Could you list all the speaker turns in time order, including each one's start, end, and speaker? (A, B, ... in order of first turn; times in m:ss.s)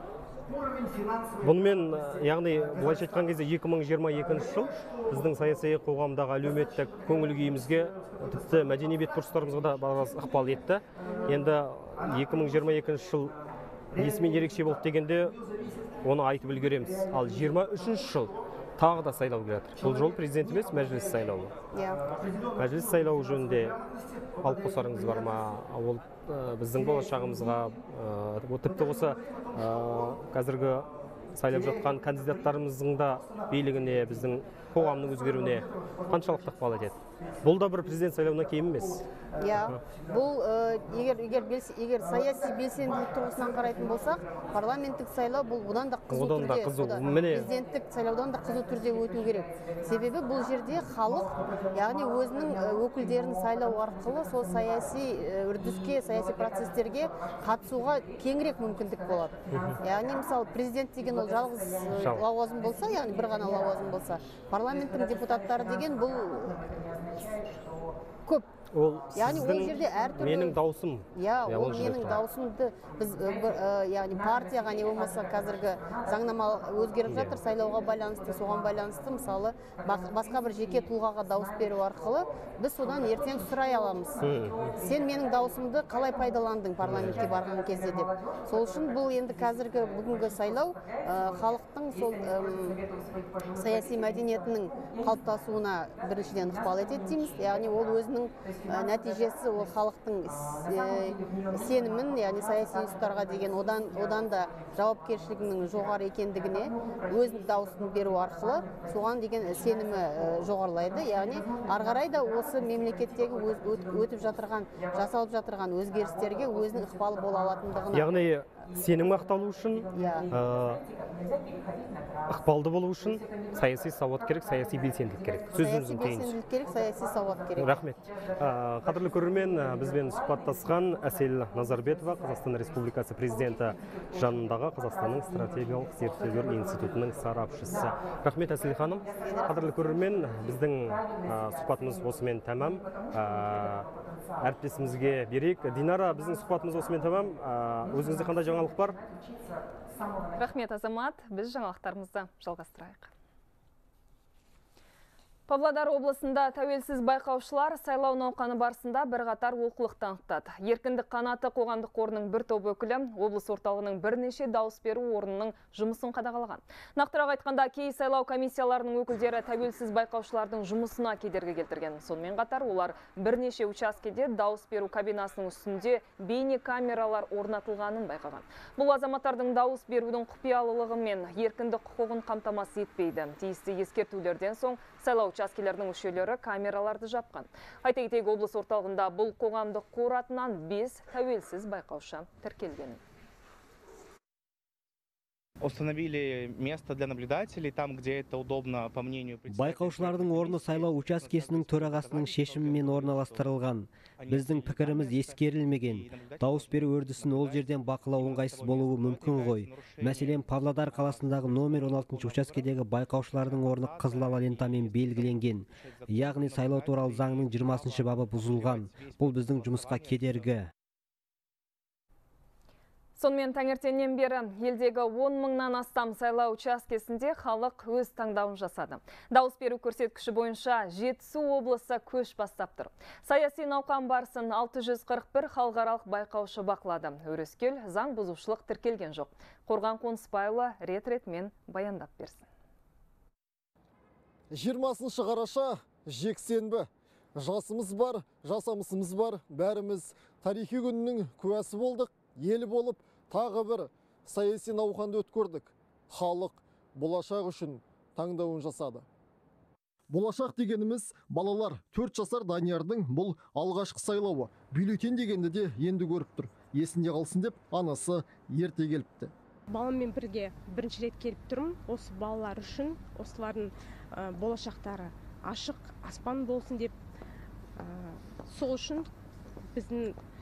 0:01.4-0:13.3 A
0:14.0-0:15.3 A
0:16.0-0:21.5 A
0:21.7-0:22.0 B
0:22.6-0:23.8 A
0:24.4-0:39.0 A
0:39.4-1:06.7 B
0:46.1-0:47.5 A
0:59.5-0:59.8 A
1:08.7-1:12.2 A
1:09.1-1:10.6 B
1:11.2-1:24.2 B
1:17.1-1:17.3 A
1:24.2-1:24.8 A
1:24.8-1:32.8 B
1:26.8-1:27.3 A
1:33.5-1:58.1 B
1:57.9-2:00.8 A
1:59.9-2:00.2 B
2:02.3-2:06.3 A
2:05.5-2:07.8 B
2:07.6-2:23.9 A
2:24.4-2:29.0 A
2:30.4-2:33.1 C
2:35.5-3:13.0 C
3:15.6-3:20.8 D
3:19.5-3:40.7 E
3:21.5-3:23.4 D
3:43.2-4:02.5 C
4:04.5-4:19.0 F
4:20.1-4:29.3 F
4:29.7-4:33.7 G
4:34.2-4:36.9 G
4:38.5-4:39.0 G
4:39.8-4:40.1 G